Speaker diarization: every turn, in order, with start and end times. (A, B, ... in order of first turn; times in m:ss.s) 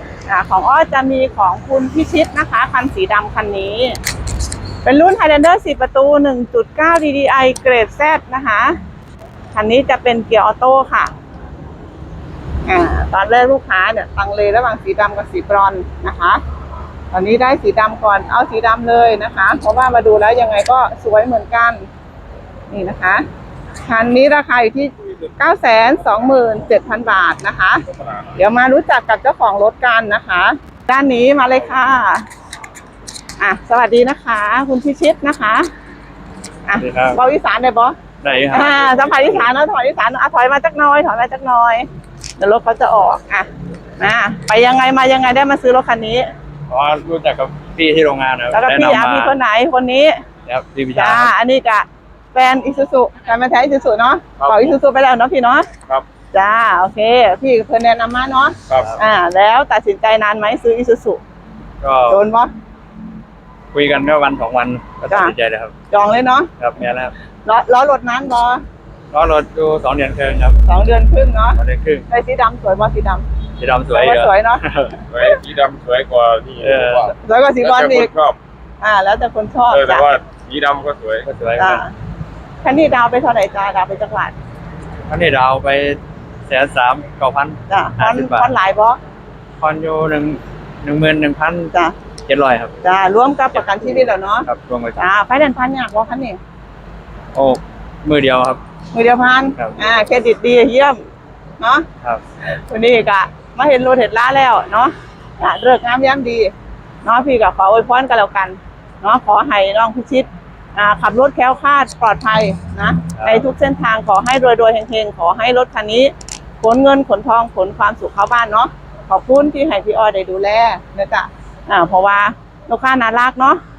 0:00.3-0:04.0 A
0:04.8-0:08.8 A
0:09.5-0:11.1 A
0:12.6-0:16.4 A
0:17.1-0:21.8 A
0:22.7-0:23.2 A
0:23.8-0:32.2 A
0:33.4-0:35.7 A
0:36.7-0:38.0 A
0:36.8-0:37.2 B
0:38.2-0:39.5 B
0:38.5-0:41.9 A
0:42.4-0:46.3 A
0:46.7-0:49.4 B
0:48.5-0:50.2 A
0:50.5-0:51.3 B
0:50.9-0:55.7 A
0:54.4-0:54.7 C
0:56.3-1:01.2 A
1:01.8-1:02.2 B
1:02.1-1:02.5 A
1:03.7-1:05.7 B
1:05.9-1:06.5 A
1:06.6-1:07.1 B
1:07.4-1:08.6 A
1:09.1-1:10.6 B
1:10.6-1:13.2 A
1:11.6-1:12.0 B
1:13.6-1:15.0 B
1:13.9-1:14.6 A
1:15.1-1:18.4 C
1:16.6-1:17.1 B
1:17.2-1:18.1 A
1:18.8-1:20.1 A
1:19.7-1:21.2 C
1:21.2-1:21.8 B
1:21.6-1:21.9 A
1:22.6-1:24.3 A
1:25.1-1:28.5 B
1:27.7-1:29.0 A
1:29.6-1:31.7 B
1:32.2-1:32.7 B
1:32.8-1:36.4 A
1:34.4-1:35.0 B
1:37.3-1:38.6 B
1:38.9-1:41.0 A
1:41.6-1:41.8 A
1:42.4-1:46.5 A
1:47.0-2:03.6 A
1:53.2-1:53.5 B